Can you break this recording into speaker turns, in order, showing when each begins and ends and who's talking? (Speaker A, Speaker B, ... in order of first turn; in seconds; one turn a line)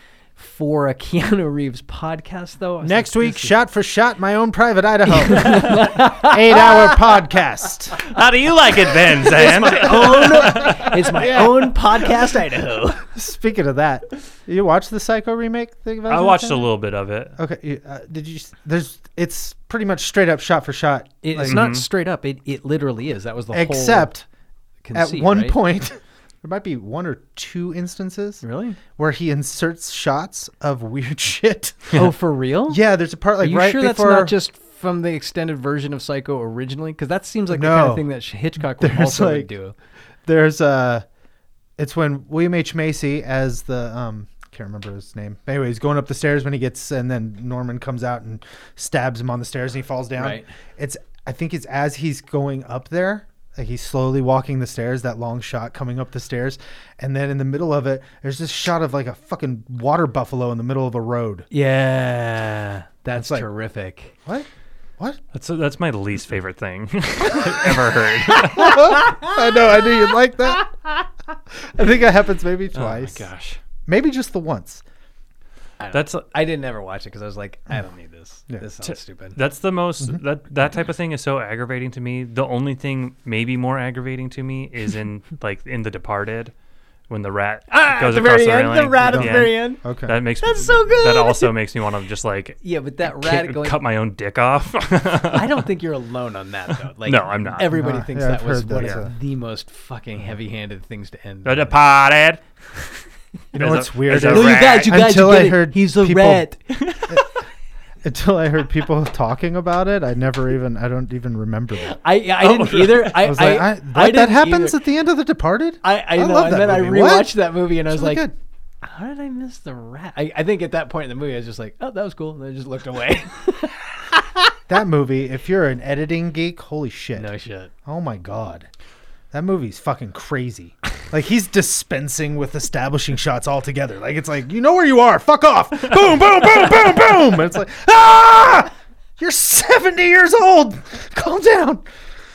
Speaker A: 0.4-3.5
Speaker B: 2.8-8.0
Speaker A: 5.1-6.9
Speaker C: 8.0-11.3
Speaker A: 9.1-13.0
Speaker B: 11.1-11.8
Speaker B: 13.0-16.7
Speaker C: 16.1-17.4
Speaker B: 17.4-21.6
Speaker A: 21.2-24.1
Speaker C: 21.5-21.8
Speaker B: 23.5-24.2
Speaker A: 24.8-25.6
Speaker B: 24.9-32.1
Speaker A: 28.4-28.8
Speaker A: 31.9-32.8
Speaker B: 32.7-34.3
Speaker A: 33.4-39.7
Speaker B: 37.5-38.1
Speaker B: 38.6-39.5
Speaker B: 40.2-41.0
Speaker B: 41.8-61.5
Speaker A: 50.2-50.5
Speaker A: 61.5-64.1
Speaker B: 63.1-63.5
Speaker B: 64.2-65.2
Speaker C: 65.3-69.0
Speaker A: 68.6-69.4
Speaker B: 68.6-70.7
Speaker B: 71.6-73.3
Speaker C: 72.7-73.6
Speaker B: 73.8-74.8
Speaker A: 75.8-79.4
Speaker C: 75.9-76.2
Speaker C: 78.8-86.5
Speaker C: 87.1-95.6
Speaker A: 87.7-89.8
Speaker B: 89.0-90.2
Speaker A: 90.4-91.5
Speaker A: 92.6-93.8
Speaker A: 95.3-101.7
Speaker C: 97.0-97.7
Speaker B: 97.7-99.1
Speaker C: 98.8-99.0
Speaker C: 101.4-104.9
Speaker B: 103.5-106.5
Speaker A: 104.1-106.6
Speaker C: 106.7-107.3
Speaker B: 108.0-112.0
Speaker A: 111.8-114.8
Speaker C: 112.4-113.3
Speaker B: 113.2-118.3
Speaker A: 115.8-118.3
Speaker A: 118.8-124.2
Speaker B: 124.7-127.3
Speaker A: 127.2-127.7
Speaker B: 127.8-128.7
Speaker B: 129.3-141.8